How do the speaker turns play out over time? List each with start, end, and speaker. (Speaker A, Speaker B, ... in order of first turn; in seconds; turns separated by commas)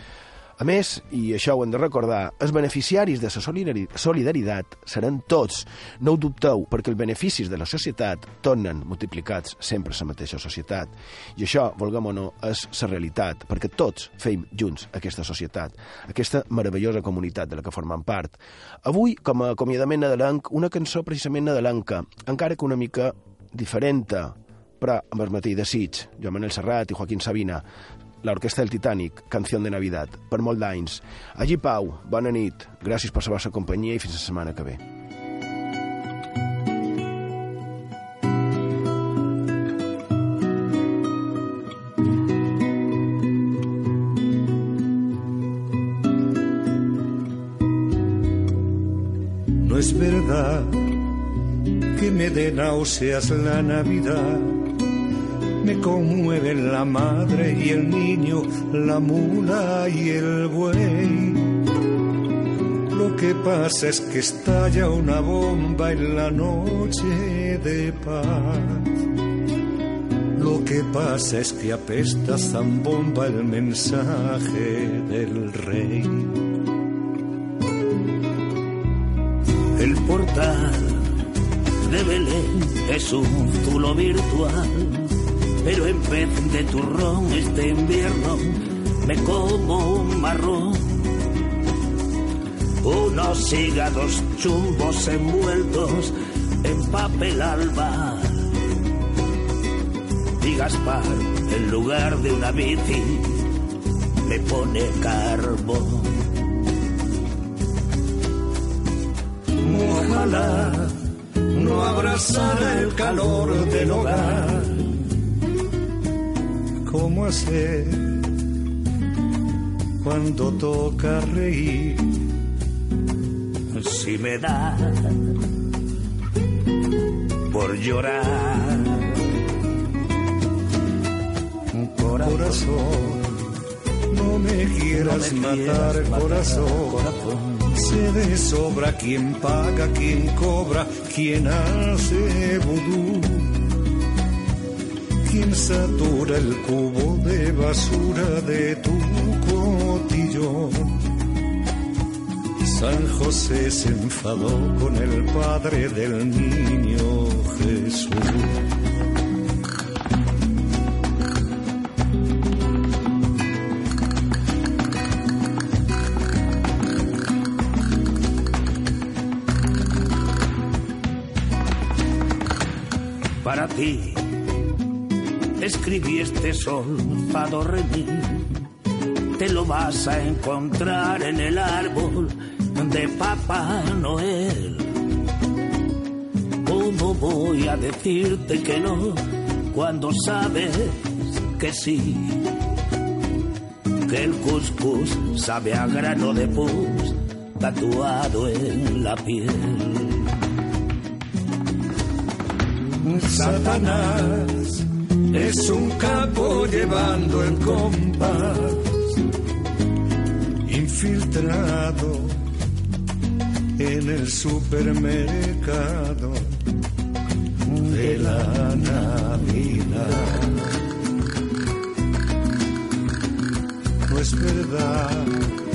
Speaker A: 0.6-27.6, Speaker A: 28.2-34.8, Speaker B: 49.6-50.9, Speaker B: 51.9-54.6, Speaker B: 55.6-61.5, Speaker B: 62.9-68.9, Speaker B: 70.3-76.4, Speaker C: 79.8-81.1, Speaker C: 81.8-91.1, Speaker C: 92.8-98.5, Speaker C: 100.4-103.4, Speaker C: 104.2-106.3, Speaker B: 109.6-111.0, Speaker B: 111.5-114.8, Speaker C: 112.4-114.8, Speaker B: 116.8-118.3, Speaker B: 120.0-122.2, Speaker C: 123.7-125.3, Speaker C: 127.5-129.1, Speaker C: 131.7-132.7, Speaker B: 132.1-133.3, Speaker B: 134.1-137.0, Speaker C: 134.9-137.8, Speaker B: 137.7-143.6, Speaker B: 145.2-151.0, Speaker B: 152.6-158.6, Speaker C: 173.4-174.2, Speaker C: 175.6-178.5, Speaker C: 179.4-185.0, Speaker C: 186.6-192.4, Speaker C: 194.1-200.3, Speaker B: 203.1-209.1, Speaker C: 203.3-204.1, Speaker B: 210.7-212.4, Speaker B: 213.8-216.6, Speaker B: 217.8-220.7, Speaker B: 224.1-225.4